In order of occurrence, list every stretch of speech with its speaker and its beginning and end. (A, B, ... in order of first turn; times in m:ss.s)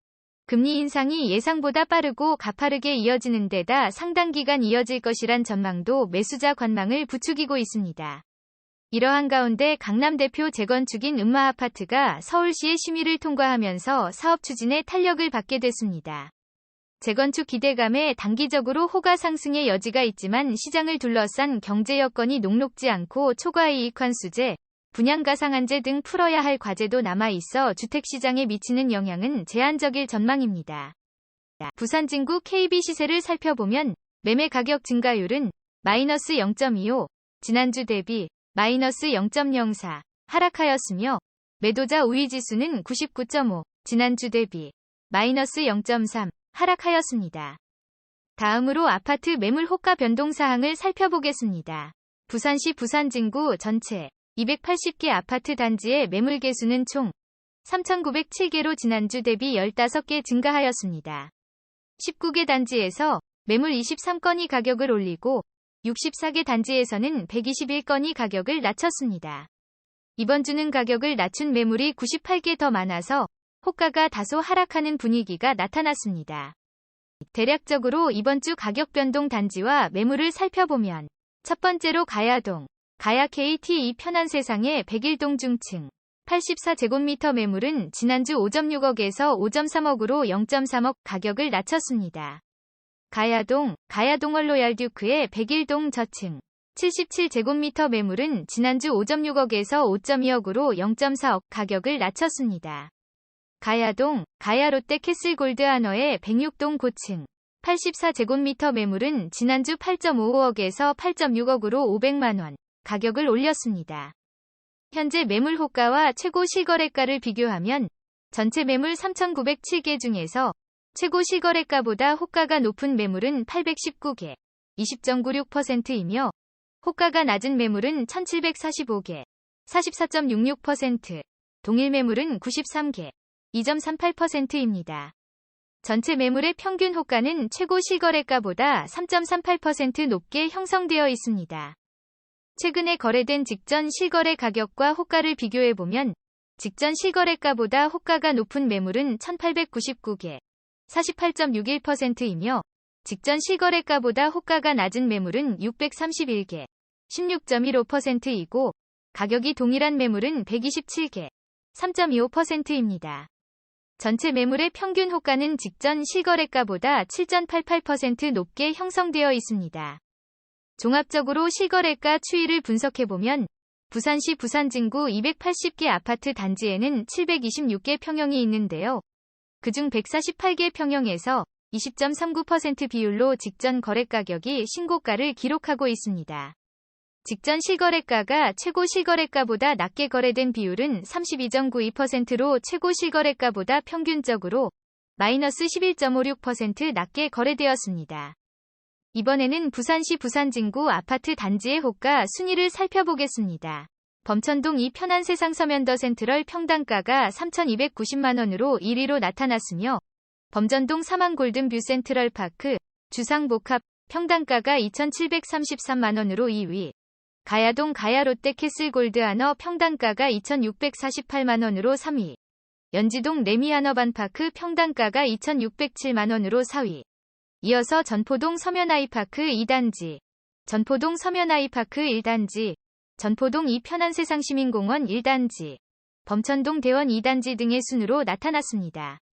0:00.5-0:08.2 A
0:08.9-0:16.3 A
0:17.0-0:31.0 A
0:31.6-0:47.6 A
0:48.4-0:57.1 A
0:57.6-1:01.3 A
1:02.0-1:09.5 A
1:10.2-1:16.6 A
1:17.3-1:32.4 A
1:33.1-1:42.9 A
1:43.6-1:54.1 A
1:54.9-2:15.1 A
2:15.8-2:21.8 A
2:22.6-2:43.3 A
2:44.0-2:50.0 A
2:50.8-2:59.0 A
2:59.6-3:06.6 A
3:07.2-3:18.4 A
3:19.1-3:30.0 A
3:30.5-3:36.9 A
3:37.4-3:42.4 A
3:42.9-3:47.0 A
3:47.6-3:59.2 A